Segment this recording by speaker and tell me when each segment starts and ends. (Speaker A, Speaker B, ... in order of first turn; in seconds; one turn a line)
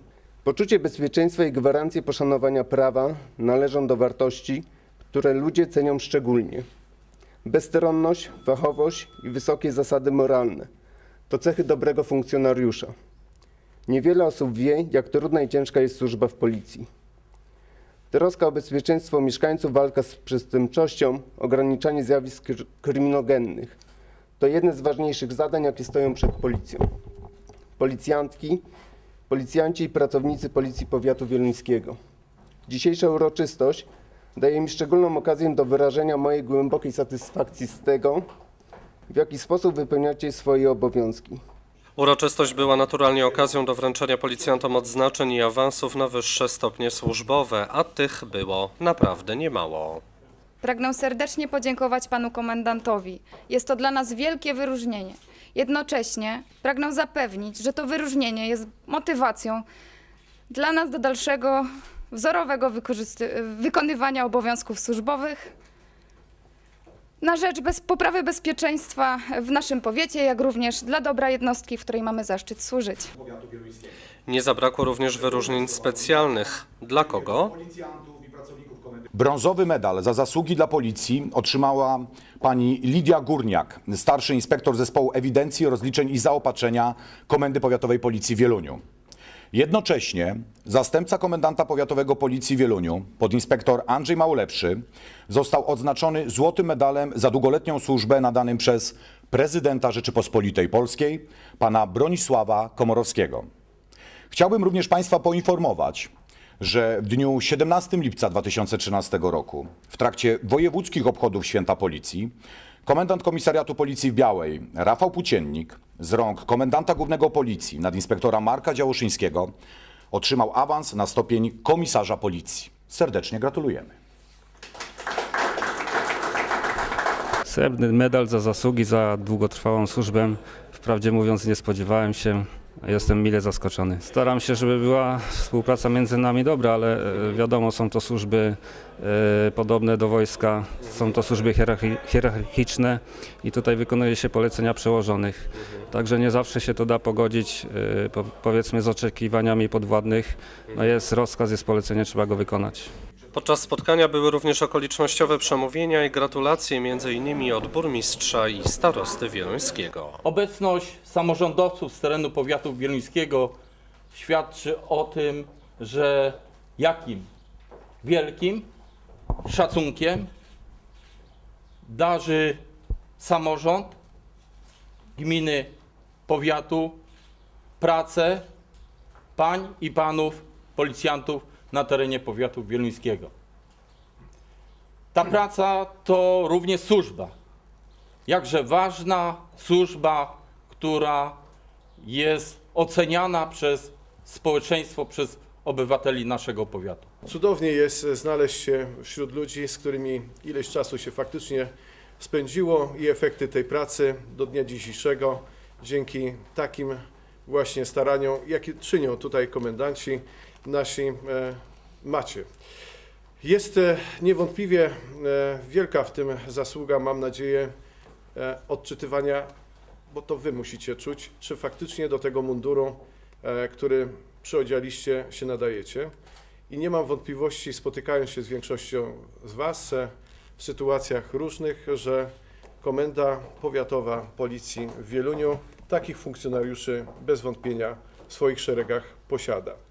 Speaker A: 0.4-6.6
Speaker A: 7.4-10.7
Speaker A: 11.3-12.9
Speaker A: 13.9-16.9
Speaker A: 18.1-23.8
Speaker A: 24.4-26.8
Speaker A: 27.8-28.6
Speaker A: 29.3-32.0
Speaker A: 32.7-38.2
Speaker A: 39.1-41.4
Speaker B: 42.0-50.0
Speaker C: 50.6-59.6
Speaker C: 60.5-65.5
Speaker C: 67.2-73.1
Speaker D: 73.2-73.9
Speaker B: 74.3-77.5
Speaker D: 75.5-76.1
Speaker D: 77.0-88.8
Speaker D: 89.5-103.5
Speaker D: 104.3-112.3
Speaker D: 112.8-119.5
Speaker D: 120.1-123.9
Speaker E: 127.5-152.9
Speaker B: 153.3-160.2
Speaker F: 160.2-163.6
Speaker F: 164.1-167.3
Speaker F: 168.0-168.7
Speaker F: 169.4-170.3
Speaker F: 171.8-172.6
Speaker F: 173.2-173.9
Speaker F: 175.2-175.7
Speaker F: 176.3-177.0
Speaker F: 177.8-178.5
Speaker F: 179.3-183.3
Speaker F: 185.1-187.3
Speaker F: 188.3-191.4
Speaker F: 192.0-197.1
Speaker G: 197.3-212.5
Speaker G: 213.4-217.7
Speaker G: 218.3-219.5
Speaker G: 220.1-226.1
Speaker G: 226.7-232.3
Speaker G: 232.8-239.8